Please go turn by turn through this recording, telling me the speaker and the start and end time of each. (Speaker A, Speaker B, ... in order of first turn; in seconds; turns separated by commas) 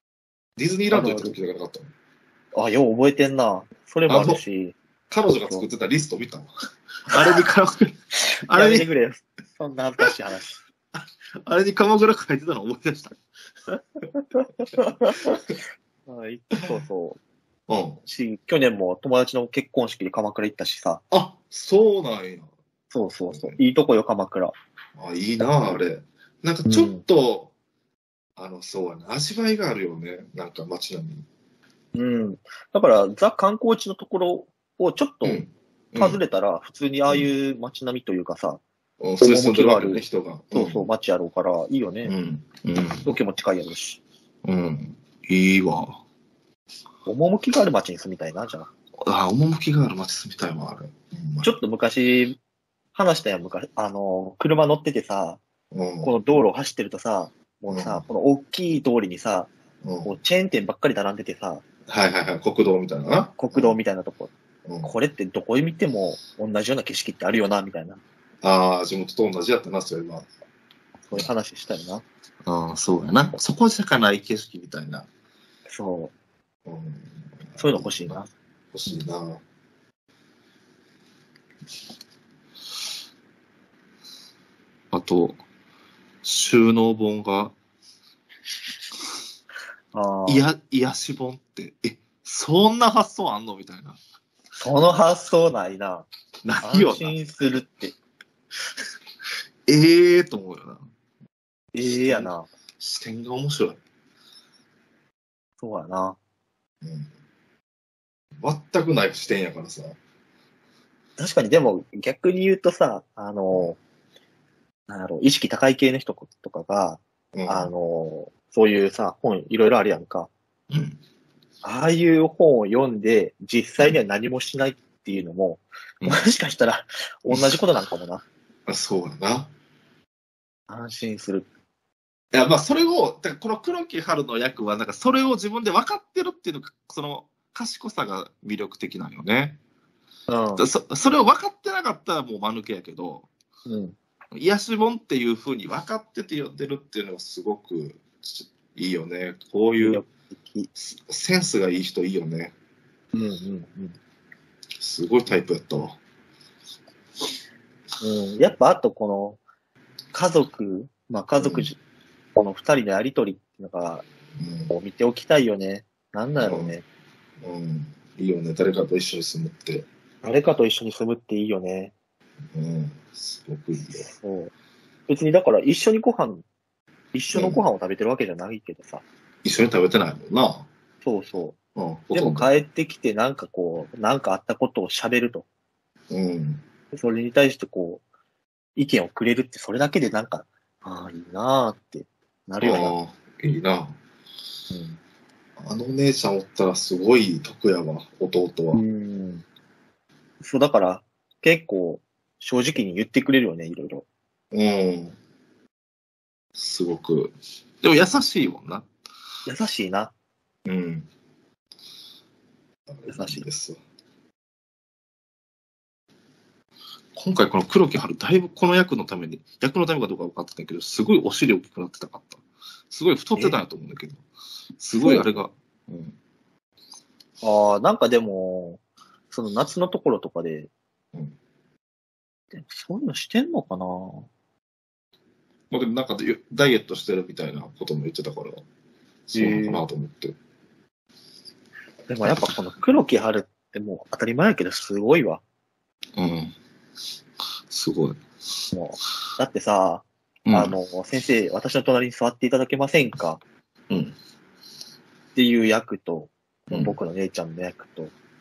Speaker A: 0.6-1.9, Speaker B: 0.9-1.4, Speaker B: 2.5-4.8, Speaker A: 4.1-4.4, Speaker A: 5.1-6.5, Speaker A: 7.1-8.9, Speaker B: 8.5-10.6, Speaker A: 11.4-13.2, Speaker B: 14.3-15.3, Speaker B: 16.1-17.2, Speaker A: 17.7-18.0, Speaker B: 18.1-21.0, Speaker A: 21.1-22.5, Speaker B: 22.9-24.5, Speaker A: 23.3-23.6, Speaker A: 25.0-27.5, Speaker B: 26.7-27.0, Speaker A: 28.4-31.2, Speaker B: 31.9-35.5, Speaker A: 35.2-36.2, Speaker B: 36.0-38.6, Speaker A: 39.0-40.9, Speaker B: 39.2-42.1, Speaker A: 42.0-43.1, Speaker B: 43.0-44.0, Speaker A: 44.4-46.0, Speaker B: 47.0-48.7, Speaker A: 49.0-51.5, Speaker B: 51.4-52.4, Speaker B: 52.9-55.4, Speaker A: 55.7-56.1, Speaker B: 56.0-59.5, Speaker A: 57.7-58.0, Speaker A: 59.8-60.1, Speaker B: 60.0-61.6, Speaker A: 61.9-63.8, Speaker B: 63.4-68.0, Speaker A: 64.7-64.9, Speaker A: 68.4-70.3, Speaker B: 71.1-72.0, Speaker A: 72.5-75.1, Speaker B: 75.7-76.1, Speaker A: 76.7-78.2, Speaker B: 77.6-78.3, Speaker A: 78.7-79.4, Speaker A: 84.9-85.4, Speaker A: 86.2-87.5, Speaker B: 89.9-90.5, Speaker A: 90.3-94.0, Speaker B: 94.6-96.1, Speaker A: 96.4-97.2, Speaker B: 96.6-98.0, Speaker A: 99.7-100.8, Speaker B: 101.7-102.5, Speaker A: 101.9-103.8, Speaker B: 105.6-106.2, Speaker A: 106.8-107.1, Speaker A: 108.4-110.0, Speaker B: 111.2-113.8, Speaker B: 114.9-120.3, Speaker A: 117.3-117.7, Speaker A: 120.7-121.0, Speaker B: 121.6-128.2, Speaker A: 127.3-127.6, Speaker A: 128.7-129.5, Speaker B: 130.7-131.5, Speaker A: 132.3-139.6, Speaker B: 140.3-140.7, Speaker A: 140.6-143.3, Speaker B: 143.7-144.0, Speaker A: 144.3-150.0, Speaker B: 149.8-150.7, Speaker A: 150.8-152.5, Speaker B: 153.1-154.0, Speaker A: 154.8-156.0, Speaker B: 158.0-159.4, Speaker B: 160.1-161.8, Speaker A: 161.4-161.7, Speaker B: 162.3-164.1, Speaker A: 164.4-164.7, Speaker B: 164.7-166.8, Speaker A: 166.4-166.7, Speaker A: 167.4-169.9, Speaker B: 170.2-171.9, Speaker A: 172.5-174.1, Speaker B: 174.0-174.5, Speaker B: 175.1-176.4, Speaker B: 177.1-179.0, Speaker A: 177.3-177.6, Speaker A: 179.4-180.7, Speaker B: 181.0-181.6, Speaker A: 181.8-182.5, Speaker B: 182.1-185.5, Speaker A: 186.1-186.6, Speaker B: 186.9-188.0, Speaker B: 188.8-193.0, Speaker A: 192.6-194.0, Speaker B: 194.7-195.0, Speaker A: 195.6-198.8, Speaker B: 198.7-199.4, Speaker B: 200.4-204.1, Speaker A: 204.5-205.2, Speaker A: 206.6-208.9, Speaker B: 209.5-210.1, Speaker A: 210.7-211.1, Speaker A: 212.9-213.8, Speaker B: 213.1-213.5, Speaker A: 217.2-224.2, Speaker A: 224.8-226.2, Speaker B: 225.0-225.4, Speaker B: 227.4-230.7, Speaker B: 232.5-234.3, Speaker A: 235.7-238.6, Speaker A: 239.3-240.4, Speaker B: 239.3-239.8, Speaker B: 242.1-245.4, Speaker A: 246.2-246.6, Speaker A: 247.7-248.2, Speaker B: 248.7-253.4, Speaker A: 250.5-250.8, Speaker A: 253.9-254.2, Speaker B: 255.3-258.1, Speaker A: 256.7-257.0